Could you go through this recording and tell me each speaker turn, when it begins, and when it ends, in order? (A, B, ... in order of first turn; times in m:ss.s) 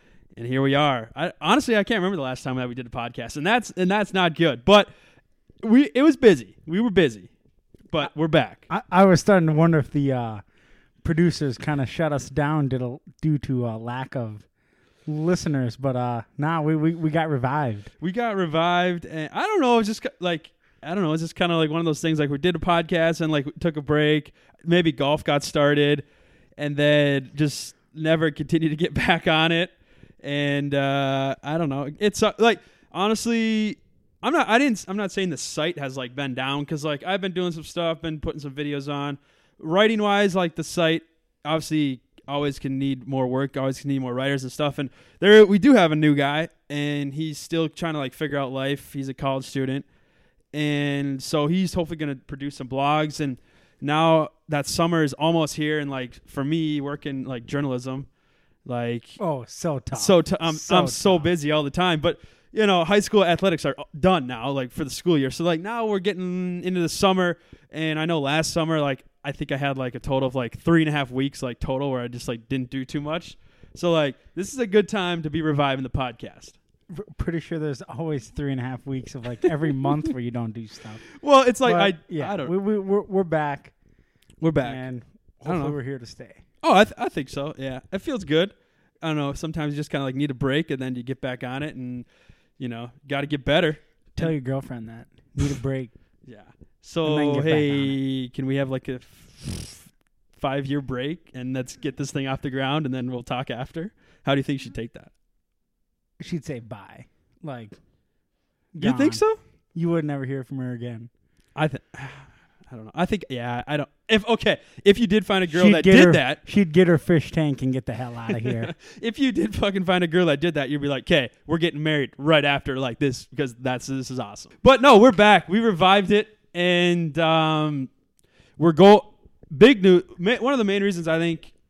0:00.4-0:04.9 A
0:05.6-0:07.3 A
0:07.9-0:08.6 A
0:08.7-0:10.4 B
0:11.0-0:14.4 B
0:15.0-0:17.9 B
0:18.0-0:26.0 A
0:26.6-0:49.8 A
0:50.5-0:58.1 A
0:58.6-0:59.2 A
0:59.2-1:01.3 B
0:59.9-1:16.6 A
1:16.9-1:21.0 B
1:21.2-1:22.5 A
1:21.6-1:23.7 B
1:24.4-1:24.8 A
1:24.6-1:26.4 B
1:25.4-1:25.8 A
1:26.6-1:32.1 A
1:32.6-1:34.3 A
1:34.2-1:35.9 B
1:36.2-1:45.1 A
1:37.0-1:38.0 B
1:46.2-1:47.7 B
1:48.7-1:51.1 B
1:48.8-1:49.4 A
1:51.5-1:56.4 A
1:55.5-1:58.7 B
1:58.3-2:07.9 A
2:08.6-2:11.5 A